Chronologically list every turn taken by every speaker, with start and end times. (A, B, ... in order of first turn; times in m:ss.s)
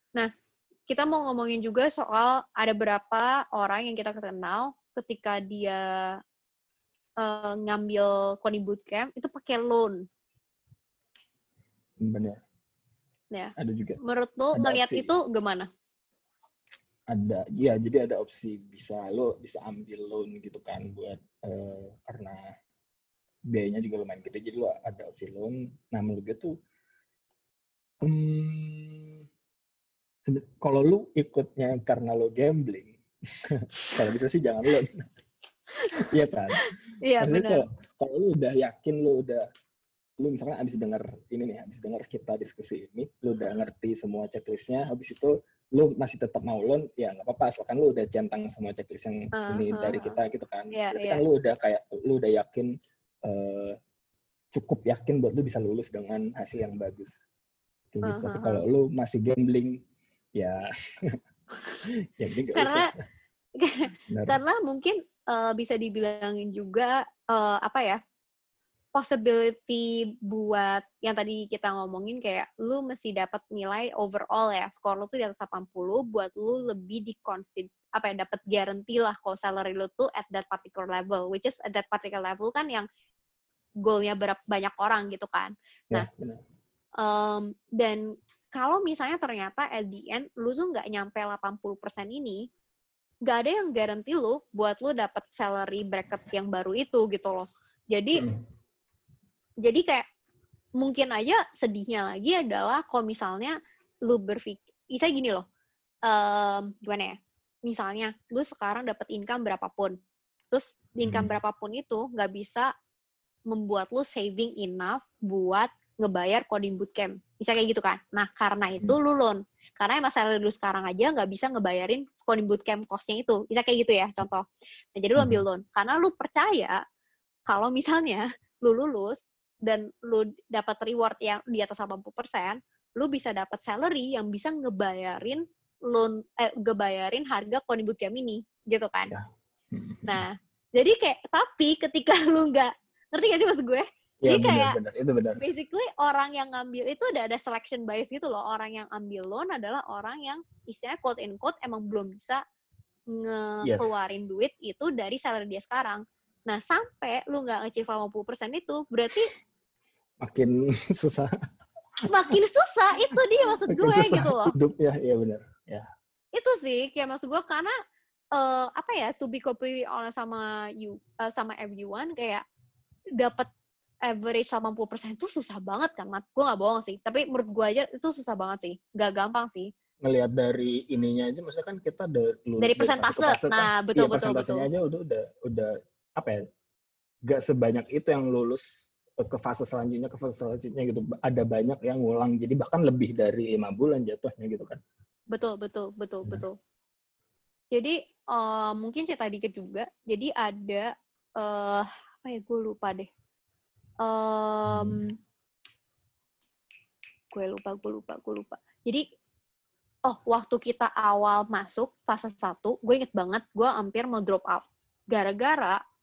0:00.9-0:06.2 A
0:07.2-0:10.0 A
0:12.0-0:12.4 B
0:13.3-0:15.7 A
0:13.6-0:14.0 B
0:14.5-0:15.1 B
0:17.1-0:22.5 B
0:23.5-0:26.6 B
0:28.0-0:29.2 B
0:30.2-0:35.1 B
0:36.1-0:36.6 B
0:36.6-0:37.6 A
0:37.2-0:39.5 B
0:40.2-0:52.7 B
0:49.3-0:50.2 A
0:50.7-0:51.2 A
0:53.2-0:53.8 B
0:54.5-0:57.2 B
0:57.9-0:59.8 B
0:58.0-0:58.6 A
1:00.4-1:00.7 B
1:02.2-1:02.9 B
1:02.5-1:02.9 A
1:03.6-1:08.0 A
1:04.1-1:04.4 B
1:08.9-1:22.9 A
1:23.8-1:26.1 A
1:25.9-1:26.4 B
1:27.0-1:32.5 A
1:33.3-1:38.3 A
1:38.2-1:38.4 B
1:39.6-1:40.1 A
1:40.8-1:45.4 A
1:46.1-1:47.2 A
1:47.7-1:50.0 A
1:50.5-1:52.7 A
1:51.0-1:51.4 B
1:53.5-2:06.8 A
2:05.2-2:05.4 B
2:07.5-2:19.1 A
2:19.1-2:20.2 B
2:20.1-2:24.8 A
2:24.2-2:25.4 B
2:25.4-2:32.4 A
2:33.1-2:39.3 A
2:33.6-2:33.9 B
2:40.2-2:41.3 B
2:42.1-2:44.6 A
2:43.7-2:45.9 B
2:46.3-2:47.7 A
2:48.4-2:52.4 A
2:53.2-2:53.5 A
2:54.1-2:59.7 A
3:00.0-3:06.4 B
3:02.6-3:04.7 A
3:07.3-3:14.8 B
3:15.3-3:16.6 A
3:17.7-3:23.1 A
3:24.0-3:25.1 A
3:24.7-3:25.1 B
3:27.3-3:29.0 A
3:30.1-3:35.8 A